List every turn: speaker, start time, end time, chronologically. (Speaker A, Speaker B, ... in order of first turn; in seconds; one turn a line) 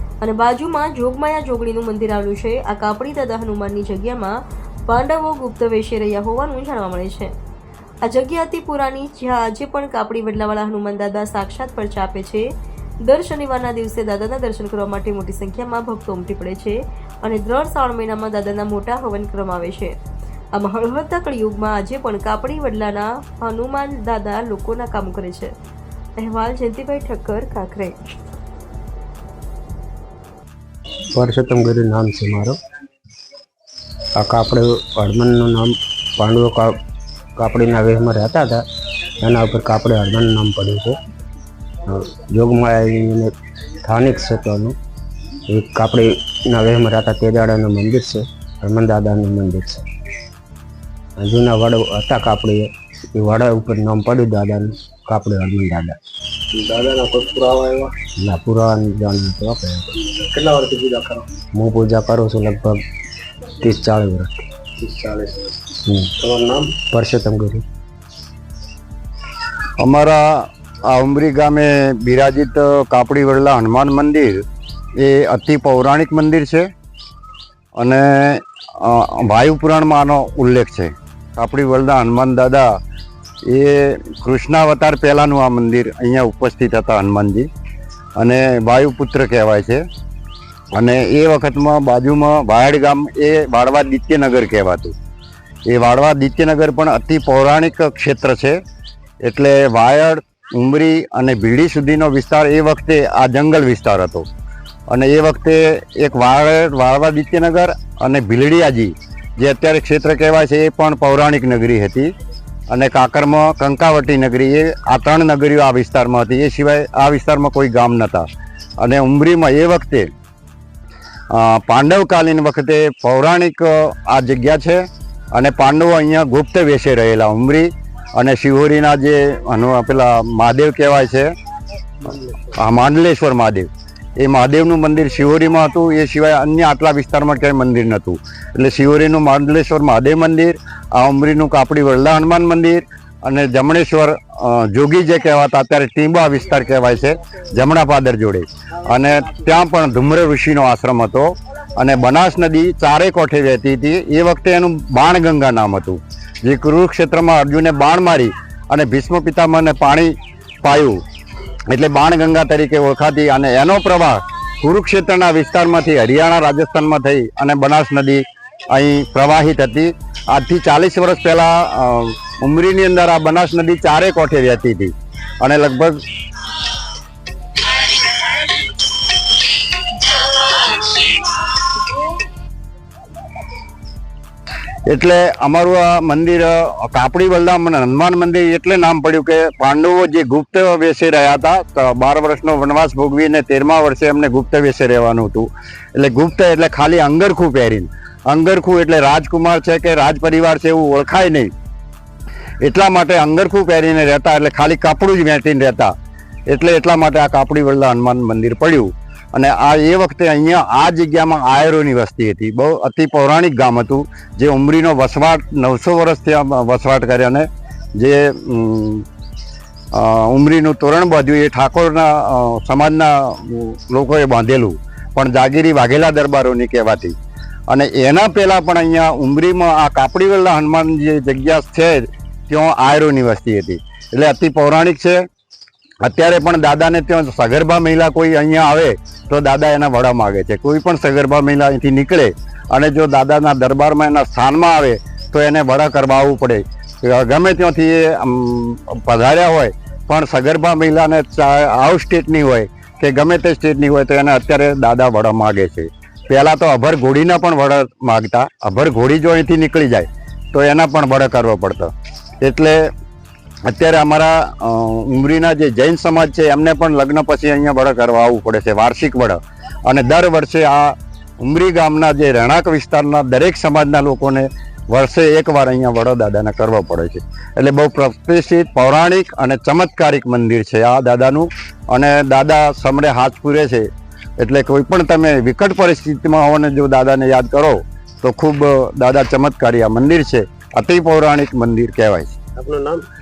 Speaker A: 0.2-4.3
Speaker A: 4.9-7.3
Speaker A: 8.0-12.4
Speaker A: 13.0-19.9
Speaker A: 20.5-25.5
Speaker A: 26.2-28.1
Speaker B: 31.2-32.5
Speaker B: 34.2-36.7
Speaker B: 37.4-38.6
Speaker B: 39.2-41.0
Speaker B: 41.9-43.3
Speaker B: 43.8-44.7
Speaker B: 45.5-49.8
Speaker B: 51.2-56.0
Speaker C: 56.5-57.9
Speaker B: 58.2-60.0
Speaker C: 60.0-61.3
Speaker B: 61.5-62.8
Speaker B: 63.6-64.4
Speaker C: 64.8-65.6
Speaker B: 65.8-66.1
Speaker C: 66.2-66.8
Speaker B: 66.8-67.6
Speaker D: 69.8-70.2
Speaker D: 70.9-74.4
Speaker D: 75.0-76.7
Speaker D: 77.8-82.7
Speaker D: 83.5-87.5
Speaker D: 88.2-89.8
Speaker D: 90.7-94.9
Speaker D: 95.7-98.6
Speaker D: 99.2-104.2
Speaker D: 104.9-112.1
Speaker D: 112.7-118.2
Speaker D: 118.8-120.1
Speaker D: 121.3-124.8
Speaker D: 125.3-131.3
Speaker D: 132.5-133.7
Speaker D: 134.2-161.0
Speaker D: 161.7-176.0
Speaker D: 177.8-178.5
Speaker D: 180.5-181.1
Speaker D: 184.9-201.5
Speaker D: 202.6-205.9
Speaker D: 206.5-217.4
Speaker D: 218.0-219.0
Speaker D: 219.9-227.1
Speaker D: 227.7-235.2
Speaker D: 236.0-262.8
Speaker D: 263.7-283.9
Speaker D: 284.4-292.4
Speaker C: 292.6-293.0